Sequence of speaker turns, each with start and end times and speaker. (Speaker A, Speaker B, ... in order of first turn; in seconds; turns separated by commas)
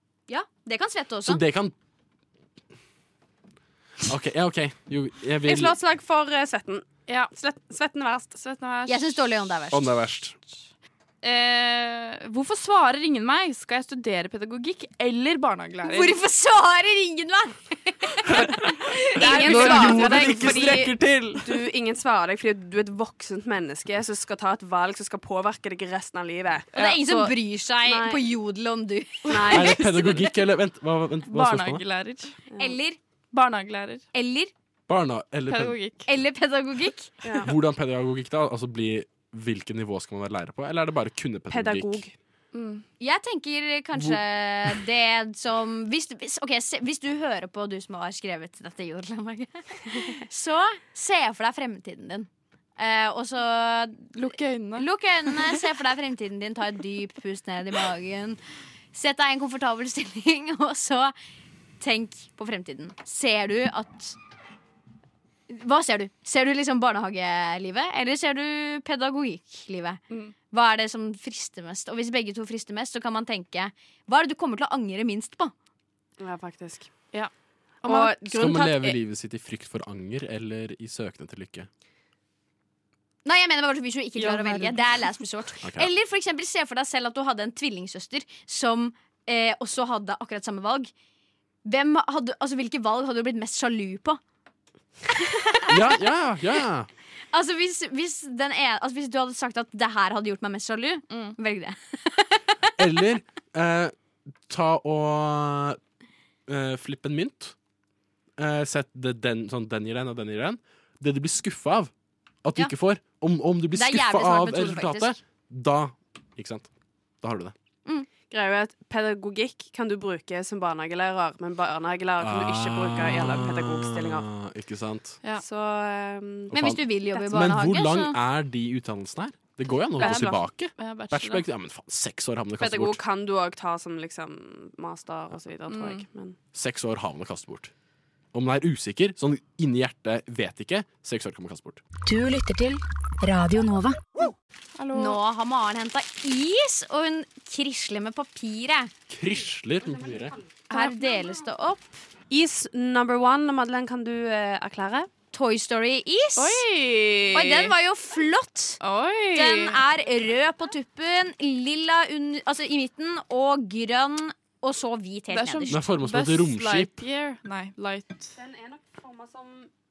Speaker A: 0.3-1.4, Speaker B: 1.2-1.7, Speaker B: 4.0-5.8, Speaker C: 5.4-8.4, Speaker D: 7.1-7.3, Speaker D: 8.4-9.1, Speaker A: 8.8-9.9, Speaker B: 9.7-10.4, Speaker D: 11.2-16.2, Speaker A: 15.8-19.4, Speaker B: 18.3-21.7, Speaker C: 19.1-26.7, Speaker D: 19.2-20.8, Speaker D: 26.7-27.3, Speaker A: 26.7-30.3, Speaker C: 27.8-28.2, Speaker C: 29.3-29.9, Speaker B: 29.5-31.8, Speaker D: 31.3-32.3, Speaker C: 32.5-32.8, Speaker A: 32.6-33.0, Speaker D: 33.3-34.0, Speaker A: 34.1-34.5, Speaker B: 34.9-35.8, Speaker D: 35.5-36.1, Speaker A: 36.0-37.1, Speaker C: 37.2-37.5, Speaker B: 37.4-42.0, Speaker C: 41.5-42.1, Speaker D: 42.5-42.8, Speaker A: 43.0-54.1, Speaker D: 54.1-55.4, Speaker A: 54.8-58.4, Speaker A: 58.9-61.1, Speaker A: 61.8-64.2, Speaker A: 65.5-70.0, Speaker A: 70.5-75.5, Speaker C: 76.2-76.9, Speaker D: 77.8-78.2, Speaker C: 77.8-79.0, Speaker B: 78.3-81.7, Speaker A: 83.2-90.9, Speaker D: 84.2-84.6, Speaker B: 85.6-85.9, Speaker A: 91.6-94.2, Speaker A: 95.2-95.8, Speaker B: 95.7-96.9, Speaker A: 97.3-102.8, Speaker B: 102.8-103.9, Speaker B: 104.4-105.8, Speaker B: 106.5-107.5, Speaker B: 108.4-111.9, Speaker B: 112.4-116.7, Speaker A: 113.7-115.2, Speaker B: 117.2-117.5, Speaker C: 118.3-124.3, Speaker B: 122.2-125.2, Speaker C: 125.4-126.6, Speaker B: 126.5-133.0, Speaker A: 126.5-128.2, Speaker C: 130.0-130.4, Speaker D: 130.0-131.4, Speaker C: 132.6-136.4, Speaker D: 135.7-136.0, Speaker B: 136.5-137.7, Speaker B: 138.3-141.8, Speaker E: 142.0-144.0, Speaker D: 144.8-145.2, Speaker A: 144.9-148.9, Speaker B: 149.1-150.4, Speaker A: 150.7-152.0, Speaker C: 152.3-155.1, Speaker A: 155.3-156.6, Speaker D: 156.3-157.7, Speaker A: 157.3-158.8, Speaker D: 158.8-159.8, Speaker A: 159.3-165.8, Speaker D: 165.3-168.3, Speaker B: 165.7-166.9, Speaker C: 168.3-169.7